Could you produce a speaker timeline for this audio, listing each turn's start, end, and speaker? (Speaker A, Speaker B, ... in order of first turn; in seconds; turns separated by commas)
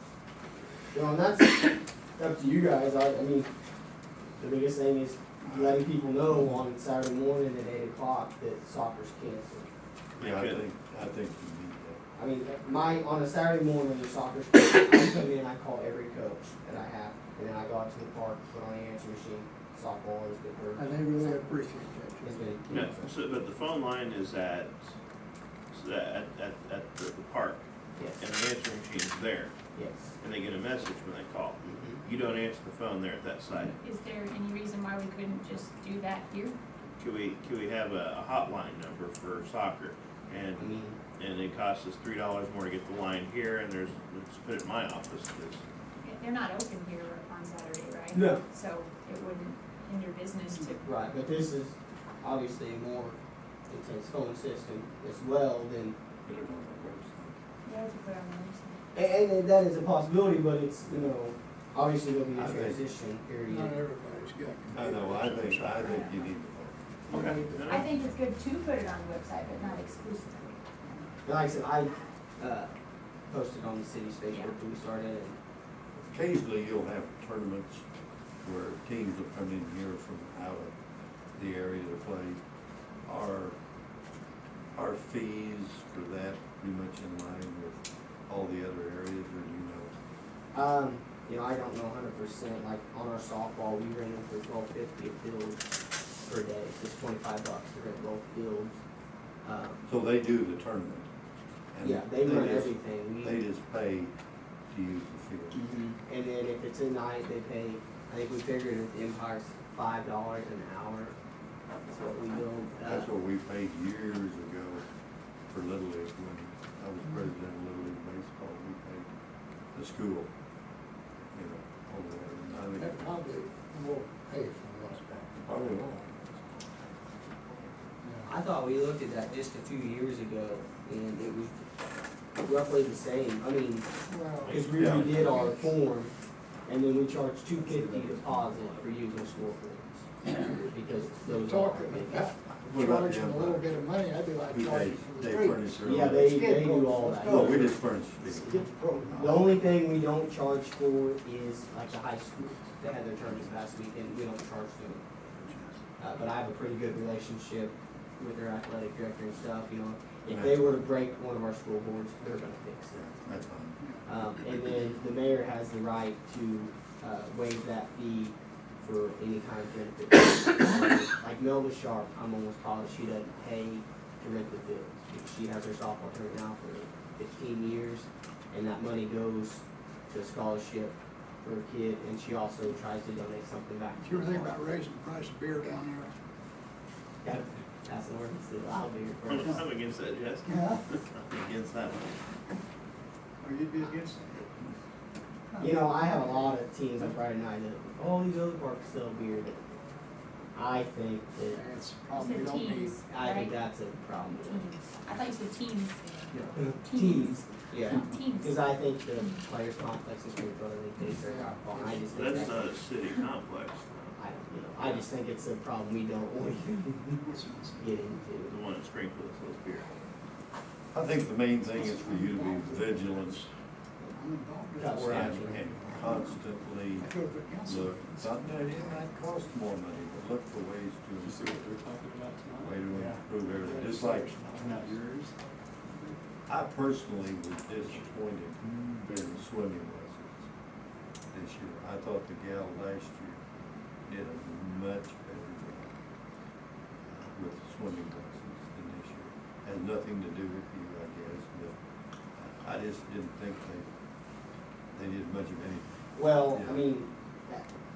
Speaker A: 0.9-3.5, Speaker A: 4.4-9.7, Speaker B: 10.2-10.6, Speaker C: 10.2-12.0, Speaker A: 12.2-21.4, Speaker D: 20.8-22.6, Speaker A: 22.2-23.1, Speaker B: 22.7-24.9, Speaker B: 25.7-27.6, Speaker A: 28.0-28.2, Speaker B: 28.2-29.5, Speaker A: 29.8-30.1, Speaker B: 30.2-33.8, Speaker A: 31.6-32.0, Speaker E: 33.8-36.5, Speaker B: 37.0-45.6, Speaker A: 40.6-41.0, Speaker E: 46.0-50.8, Speaker A: 48.1-48.4, Speaker A: 50.8-56.0, Speaker C: 56.2-57.4, Speaker E: 57.6-58.8, Speaker A: 58.9-63.8, Speaker C: 62.3-62.8, Speaker D: 63.5-65.9, Speaker C: 64.7-66.8, Speaker D: 67.1-67.7, Speaker B: 67.1-67.9, Speaker E: 67.6-70.6, Speaker A: 71.2-72.7, Speaker A: 73.3-75.4, Speaker E: 74.3-74.5, Speaker C: 76.1-77.8, Speaker C: 78.4-80.7, Speaker C: 81.3-82.4, Speaker C: 83.0-83.5, Speaker C: 84.7-89.9, Speaker A: 90.5-95.6, Speaker A: 96.2-98.8, Speaker A: 99.4-99.8, Speaker C: 99.9-101.1, Speaker C: 101.7-104.1, Speaker A: 101.8-103.4, Speaker C: 104.7-105.6, Speaker A: 105.5-111.2, Speaker A: 111.9-113.1, Speaker C: 112.8-114.8, Speaker C: 115.5-119.1, Speaker C: 119.7-120.3, Speaker C: 121.3-123.0, Speaker D: 122.8-125.5, Speaker C: 125.4-126.7, Speaker D: 128.0-128.3, Speaker A: 128.2-131.6, Speaker A: 132.4-133.9, Speaker D: 134.1-135.7, Speaker B: 134.4-135.4, Speaker A: 134.5-136.1, Speaker C: 134.8-135.1, Speaker A: 136.7-140.1, Speaker D: 140.2-149.5, Speaker A: 140.6-142.3, Speaker C: 142.6-143.7, Speaker C: 144.5-146.3, Speaker A: 145.8-147.7, Speaker C: 147.2-148.5, Speaker A: 149.1-155.3, Speaker D: 155.4-155.7, Speaker A: 156.0-163.0, Speaker C: 160.2-160.8, Speaker C: 162.9-163.8, Speaker D: 163.8-164.1, Speaker A: 164.0-184.6, Speaker D: 184.0-186.2, Speaker A: 187.2-189.7, Speaker B: 189.2-192.2, Speaker D: 190.4-190.8, Speaker D: 193.4-194.8, Speaker D: 195.5-196.6, Speaker A: 195.6-199.6, Speaker A: 200.5-201.6, Speaker D: 201.4-203.0, Speaker E: 202.1-203.6, Speaker A: 203.0-204.7, Speaker E: 204.4-209.4, Speaker A: 206.3-212.7, Speaker D: 211.2-212.5, Speaker B: 212.1-214.2, Speaker A: 214.2-217.2, Speaker B: 214.8-215.1, Speaker D: 217.2-218.2, Speaker A: 217.8-218.5, Speaker B: 218.5-219.9, Speaker C: 220.9-223.4, Speaker D: 221.7-223.5, Speaker D: 224.0-226.4, Speaker A: 224.8-225.6, Speaker C: 225.0-227.1, Speaker D: 227.0-229.3, Speaker C: 227.7-231.7, Speaker F: 231.2-235.3, Speaker C: 232.6-234.3, Speaker D: 232.9-235.1, Speaker C: 236.5-240.5, Speaker C: 241.3-243.4, Speaker C: 244.1-245.9, Speaker C: 247.1-251.8, Speaker C: 252.3-253.9, Speaker C: 254.9-256.8, Speaker A: 256.1-257.7